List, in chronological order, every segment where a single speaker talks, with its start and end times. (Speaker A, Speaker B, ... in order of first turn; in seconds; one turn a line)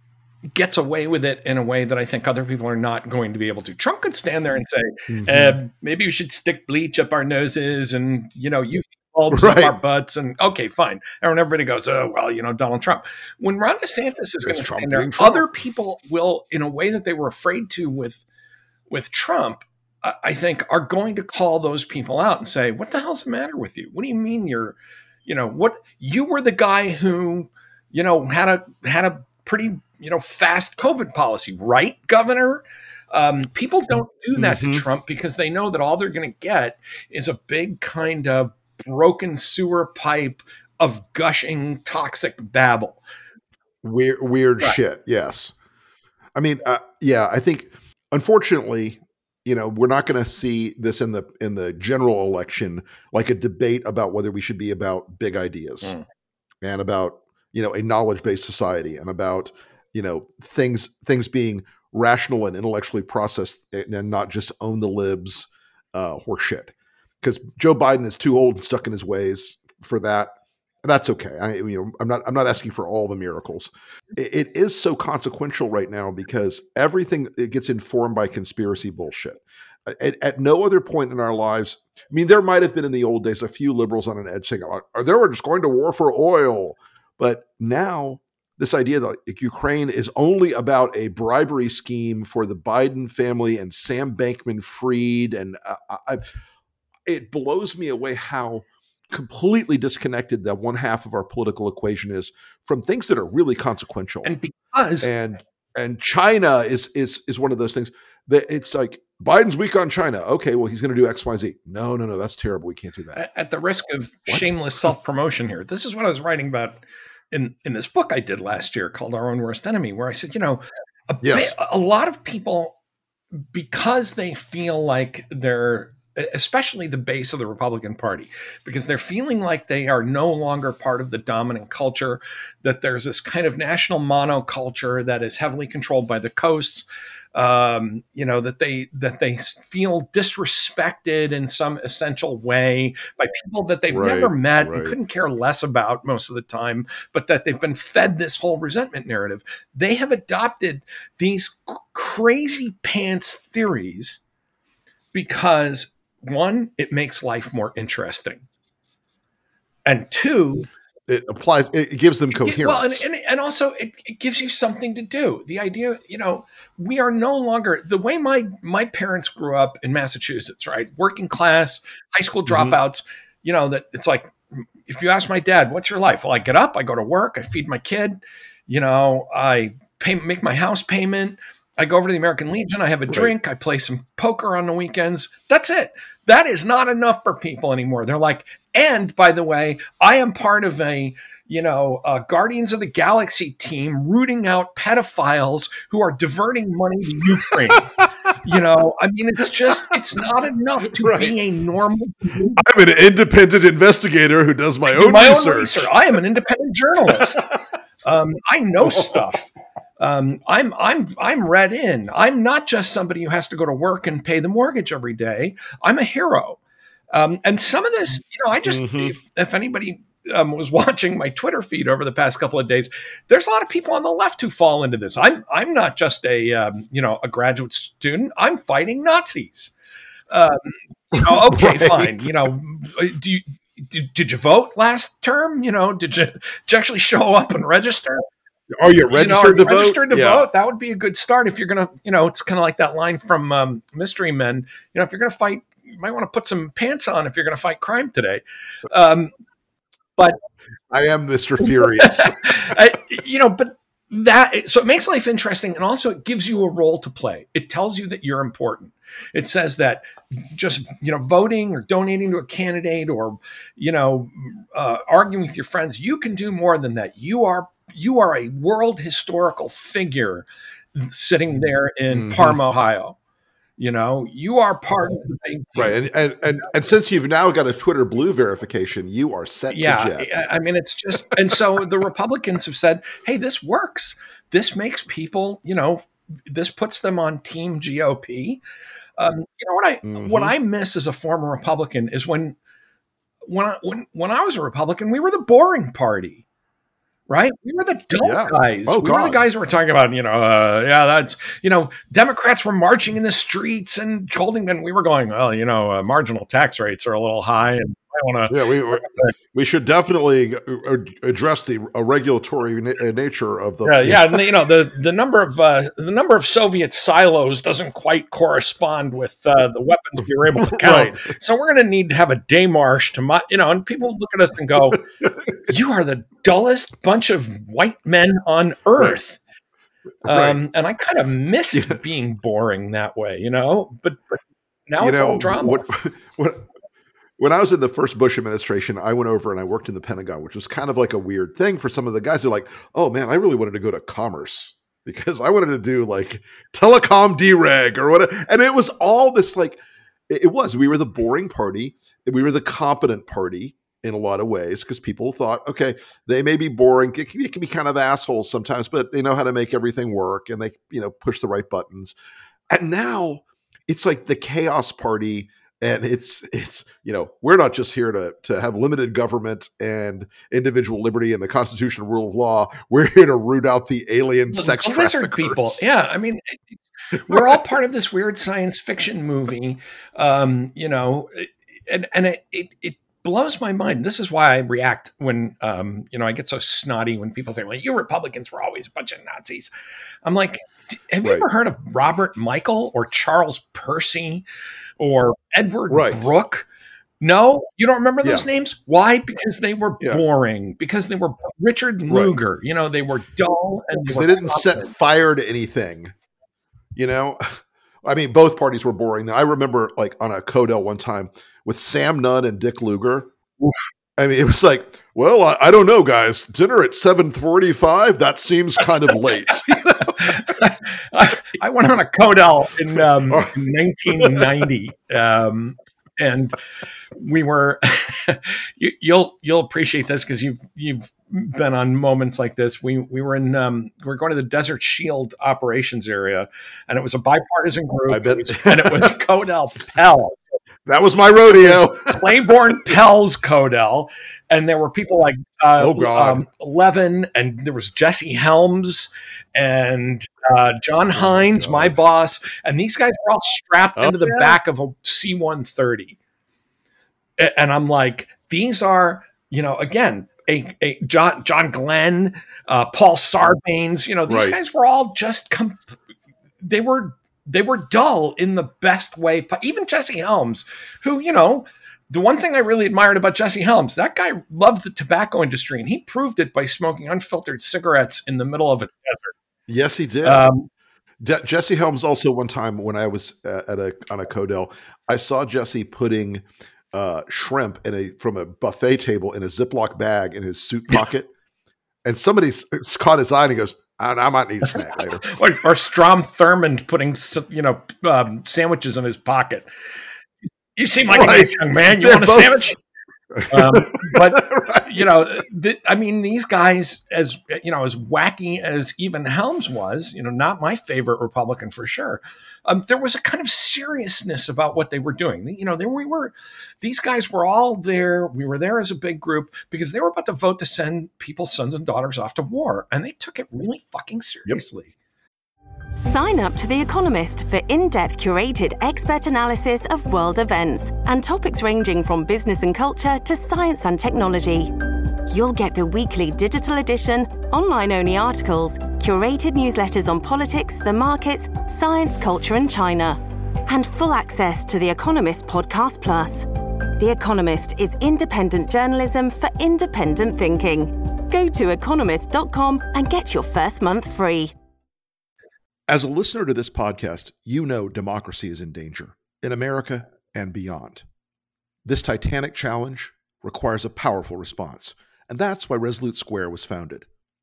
Speaker A: 0.5-18.2
Speaker B: 5.1-5.6
Speaker B: 9.3-9.8
Speaker B: 14.4-15.5
Speaker A: 18.9-43.0
Speaker B: 34.4-34.9
Speaker B: 43.8-45.5
Speaker B: 46.4-56.0
Speaker B: 56.6-96.3
Speaker B: 97.1-104.3
Speaker A: 104.2-105.1
Speaker B: 105.0-113.2
Speaker A: 113.1-122.8
Speaker B: 114.3-114.5
Speaker B: 121.2-121.5
Speaker A: 123.5-154.2
Speaker B: 143.9-145.0
Speaker A: 155.1-158.4
Speaker A: 159.8-160.7
Speaker B: 161.1-163.0
Speaker A: 162.3-197.9
Speaker B: 172.5-172.8
Speaker B: 197.8-198.0
Speaker A: 198.4-202.6
Speaker B: 199.6-200.0
Speaker B: 200.8-201.4
Speaker B: 202.6-205.9
Speaker A: 204.9-207.5
Speaker B: 207.1-207.4
Speaker A: 208.1-216.6
Speaker B: 208.8-209.2
Speaker A: 217.1-229.7
Speaker B: 218.7-219.1
Speaker A: 230.3-238.2
Speaker B: 231.1-232.5
Speaker B: 238.7-240.5
Speaker A: 239.1-249.3
Speaker B: 250.9-252.5
Speaker A: 251.8-273.2
Speaker B: 272.1-272.6
Speaker A: 273.8-276.0
Speaker B: 275.8-280.3
Speaker A: 279.7-288.6
Speaker A: 289.2-292.6
Speaker B: 290.1-290.6
Speaker A: 293.4-296.4
Speaker A: 297.3-309.3
Speaker B: 298.1-299.4
Speaker B: 308.5-314.5
Speaker A: 313.8-325.0
Speaker B: 320.6-321.3
Speaker B: 325.2-325.5
Speaker A: 325.6-329.4
Speaker B: 330.2-330.6
Speaker A: 330.2-335.8
Speaker B: 331.7-332.0
Speaker B: 335.0-336.6
Speaker B: 337.4-362.1
Speaker B: 362.7-375.9
Speaker A: 374.5-389.7
Speaker B: 377.3-377.6
Speaker A: 390.2-394.4
Speaker A: 395.0-396.7
Speaker B: 395.9-396.3
Speaker A: 397.2-404.9
Speaker B: 402.1-402.3
Speaker B: 404.0-406.1
Speaker B: 406.9-413.3
Speaker B: 414.2-420.5
Speaker A: 420.1-426.6
Speaker B: 423.3-423.5
Speaker B: 424.1-424.5
Speaker A: 427.1-440.4
Speaker B: 438.1-439.1
Speaker B: 440.9-442.3
Speaker A: 441.5-456.2
Speaker B: 445.8-446.4
Speaker B: 451.1-452.0
Speaker B: 454.0-454.6
Speaker A: 457.4-465.9
Speaker B: 464.3-464.6
Speaker A: 466.6-479.3
Speaker B: 479.7-480.5
Speaker A: 480.2-480.7
Speaker B: 481.2-491.3
Speaker B: 492.1-495.3
Speaker A: 494.7-499.7
Speaker A: 500.8-502.8
Speaker B: 501.1-502.6
Speaker B: 503.4-505.1
Speaker A: 503.5-524.9
Speaker C: 526.0-554.5
Speaker B: 555.9-561.0
Speaker B: 561.9-567.1